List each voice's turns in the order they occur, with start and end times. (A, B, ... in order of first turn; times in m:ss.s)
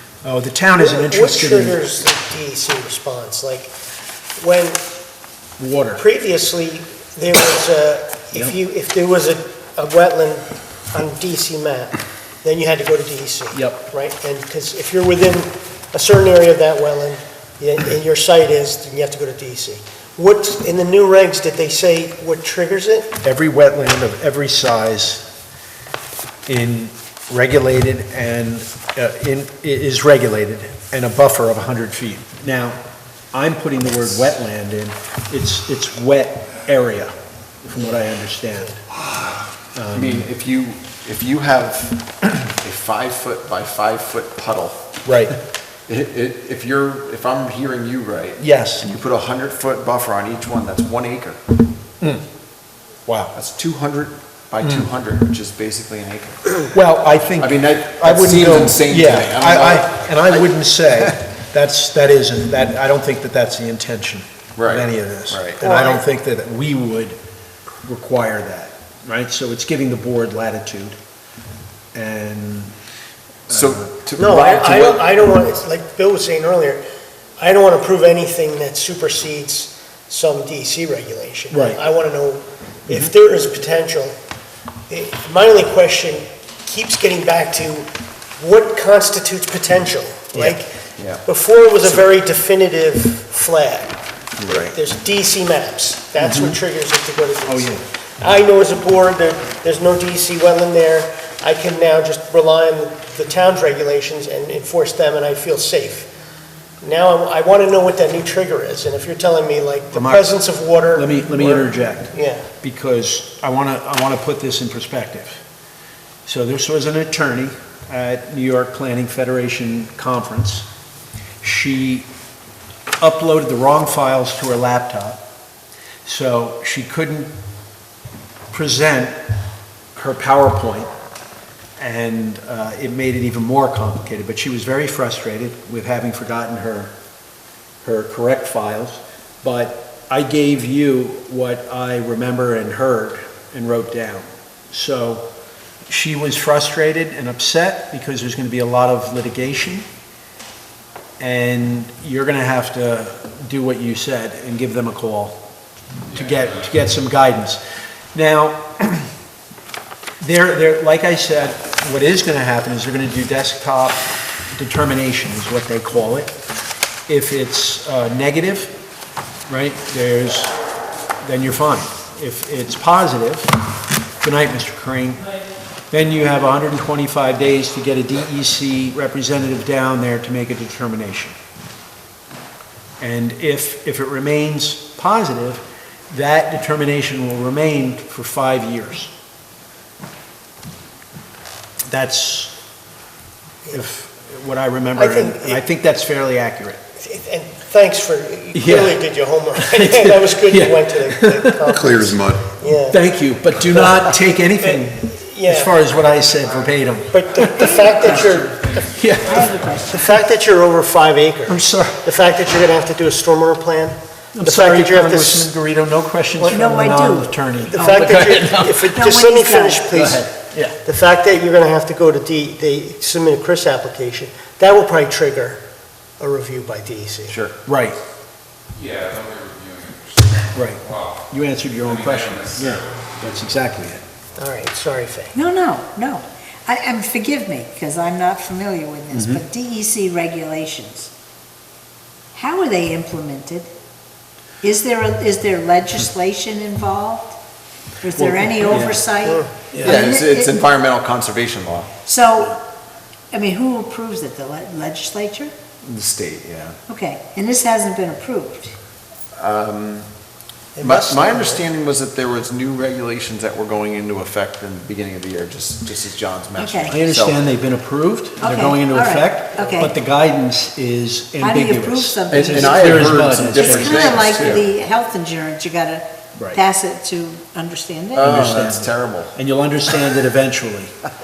0:00.2-0:01.8 A
0:00.8-0:03.7 B
0:04.4-0:04.8 B
0:05.6-0:06.0 A
0:05.9-0:23.1 B
0:13.5-0:13.8 A
0:23.2-0:25.3 A
0:26.5-0:32.8 A
0:33.3-0:38.8 A
0:39.7-0:40.2 A
0:39.9-0:44.8 C
0:45.0-0:45.3 A
0:45.9-0:51.4 C
0:48.4-0:48.9 A
0:53.0-0:53.3 A
0:53.3-0:56.7 C
0:54.6-0:54.9 A
0:56.7-1:07.2 A
0:57.4-1:01.1 C
1:04.6-1:05.6 C
1:05.6-1:06.0 B
1:07.8-1:11.0 A
1:11.9-1:12.7 A
1:13.5-1:15.0 C
1:13.5-1:13.9 A
1:14.2-1:16.8 B
1:17.4-1:24.2 B
1:21.5-1:21.8 A
1:24.9-1:46.1 B
1:30.3-1:30.6 A
1:31.0-1:31.2 C
1:34.4-1:34.7 C
1:36.2-1:36.6 A
1:37.4-1:37.8 A
1:46.8-1:52.4 B
1:49.9-1:50.3 A
1:50.9-1:55.4 A
1:56.2-2:00.7 A
2:01.4-2:02.1 A
2:03.0-2:05.2 A
2:06.0-2:07.3 A
2:08.5-2:09.2 A
2:09.9-2:10.9 A
2:11.8-2:16.9 A
2:17.8-2:25.2 A
2:25.9-2:29.8 A
2:31.2-2:35.4 A
2:36.1-2:37.6 A
2:36.1-2:36.5 D
2:38.1-2:39.1 A
2:40.2-2:46.3 A
2:47.1-2:48.7 A
2:49.5-2:50.5 A
2:51.2-2:53.5 A
2:54.2-2:55.2 A
2:55.9-3:01.4 A
3:03.0-3:09.1 A
3:11.9-3:12.6 A
3:13.7-3:16.8 A
3:14.9-3:15.6 B
3:17.0-3:23.0 B
3:18.5-3:19.0 A
3:19.5-3:21.8 A
3:21.8-3:22.4 C
3:22.7-3:29.5 A
3:23.7-3:24.0 B
3:24.6-3:25.8 B
3:27.1-3:28.9 B
3:27.8-3:29.8 D
3:29.2-3:30.0 E
3:29.8-3:35.5 B
3:31.4-3:32.1 A
3:34.3-3:38.9 A
3:36.4-3:36.7 B
3:36.5-3:39.9 E
3:37.5-3:40.3 B
3:39.9-3:40.8 A
3:40.8-3:45.6 B
3:46.2-3:47.4 B
3:47.3-3:47.5 C
3:47.6-3:48.0 A
3:48.7-3:51.2 D
3:50.5-3:54.0 A
3:51.8-3:53.1 D
3:54.4-3:55.4 B
3:55.3-4:01.1 E
3:59.1-3:59.4 A
4:02.3-4:03.7 E
4:04.6-4:07.4 E
4:08.0-4:10.6 E
4:08.2-4:09.0 A
4:09.2-4:09.5 B
4:09.7-4:10.1 A
4:09.8-4:11.9 C
4:12.0-4:12.6 E
4:13.3-4:15.5 E
4:15.8-4:16.8 C
4:16.9-4:18.8 E
4:19.4-4:20.1 C
4:20.8-4:21.6 B
4:20.8-4:27.4 C
4:26.6-4:26.9 E
4:26.8-4:34.3 A
4:28.4-4:30.0 E
4:31.4-4:38.4 E
4:32.3-4:34.7 C
4:36.4-4:36.6 A
4:38.1-4:39.4 C
4:38.2-4:40.9 A